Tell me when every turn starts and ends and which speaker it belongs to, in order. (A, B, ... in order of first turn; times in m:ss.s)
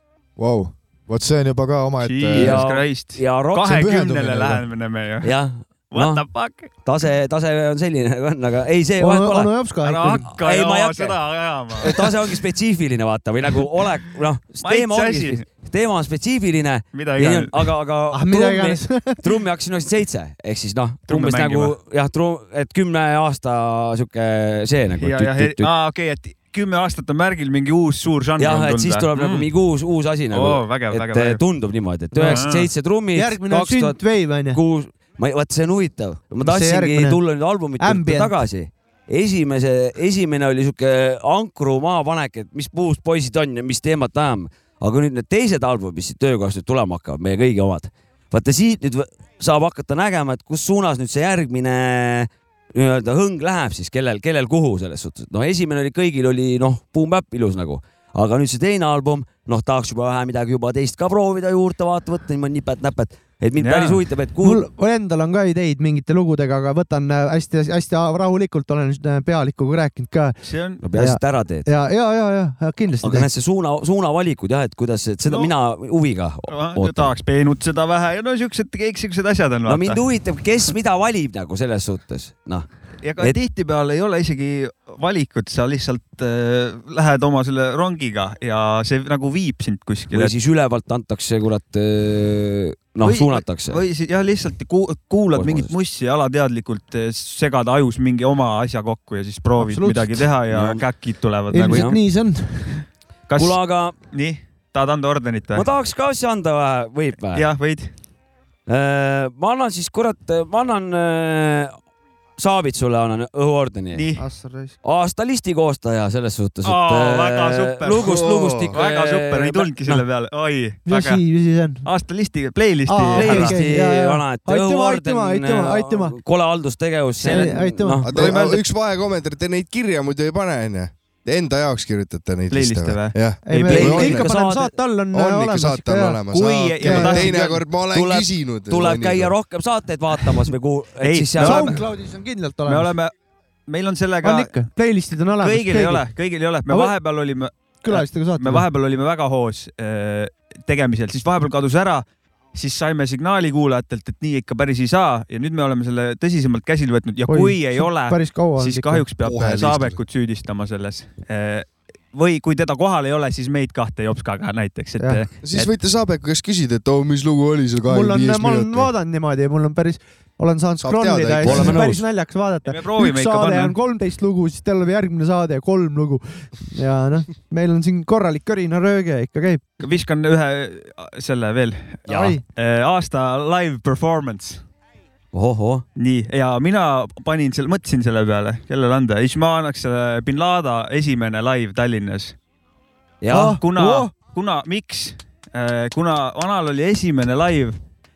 0:00.4-0:02.6 A
0:02.0-0:05.3 B
0:02.3-0:03.8 C
0:03.6-0:04.6 A
0:05.2-0:06.2 C
0:05.9-0:06.7 B
0:06.8-0:09.5 C
0:09.0-0:10.3 D
0:09.8-0:12.3 B
0:10.3-0:11.2 C
0:11.8-0:25.7 C
0:14.6-0:15.4 B
0:16.9-0:17.7 B
0:18.1-0:19.2 D
0:21.1-0:21.7 B
0:25.0-0:29.5 B
0:28.4-1:04.6 C
0:30.3-0:31.4 B
0:32.1-0:32.4 D
0:32.3-0:32.7 B
0:33.1-0:34.6 D
0:36.4-0:37.2 D
0:37.8-0:38.3 D
1:03.6-1:04.0 B
1:04.4-1:10.4 D
1:10.4-1:10.8 B
1:10.8-1:11.7 C
1:10.9-1:13.3 D
1:13.0-1:17.1 C
1:15.2-1:15.5 B
1:16.5-1:20.0 B
1:19.7-1:22.6 C
1:23.0-1:30.3 B
1:30.1-1:33.8 C
1:33.0-1:41.9 B
1:35.3-1:35.7 C
1:39.6-1:40.3 D
1:40.5-1:40.8 C
1:41.5-1:42.8 D
1:41.6-1:42.0 C
1:43.3-1:43.6 B
1:43.4-1:44.0 C
1:44.1-1:45.7 B
1:45.5-1:47.5 C
1:47.4-1:47.9 B
1:48.7-1:51.7 C
1:52.4-1:54.1 C
1:53.9-1:54.3 B
1:54.2-1:54.7 D
1:54.8-2:00.0 C
1:56.6-1:58.1 B
1:58.0-1:58.8 E
1:58.7-2:01.2 B
2:00.9-2:01.8 D
2:01.8-2:03.6 B
2:02.9-2:06.2 D
2:03.1-2:08.4 C
2:07.2-2:08.1 D
2:07.2-2:07.6 B
2:08.0-2:14.3 E
2:08.1-2:08.6 B
2:12.5-2:14.2 B
2:13.5-2:16.2 D
2:13.7-2:14.8 C
2:15.1-2:19.4 E
2:16.3-2:17.6 B
2:16.8-2:17.3 D
2:17.9-2:21.8 C
2:21.0-2:21.8 B
2:21.4-2:22.9 D
2:22.7-2:23.1 B
2:23.7-2:24.6 B
2:24.2-2:26.1 D
2:25.4-2:45.7 B
2:27.8-2:28.6 D
2:37.3-2:39.0 D
2:39.2-2:40.0 E
2:45.4-2:48.9 E
2:47.9-2:59.6 D
2:50.8-2:51.9 E
2:51.4-2:52.0 C
2:52.7-2:53.8 B
2:59.8-3:04.6 B
3:02.1-3:02.4 C
3:02.1-3:02.4 D
3:05.3-3:05.8 C
3:06.0-3:12.4 B
3:13.2-3:13.6 C
3:13.3-3:14.1 D
3:13.5-3:17.8 B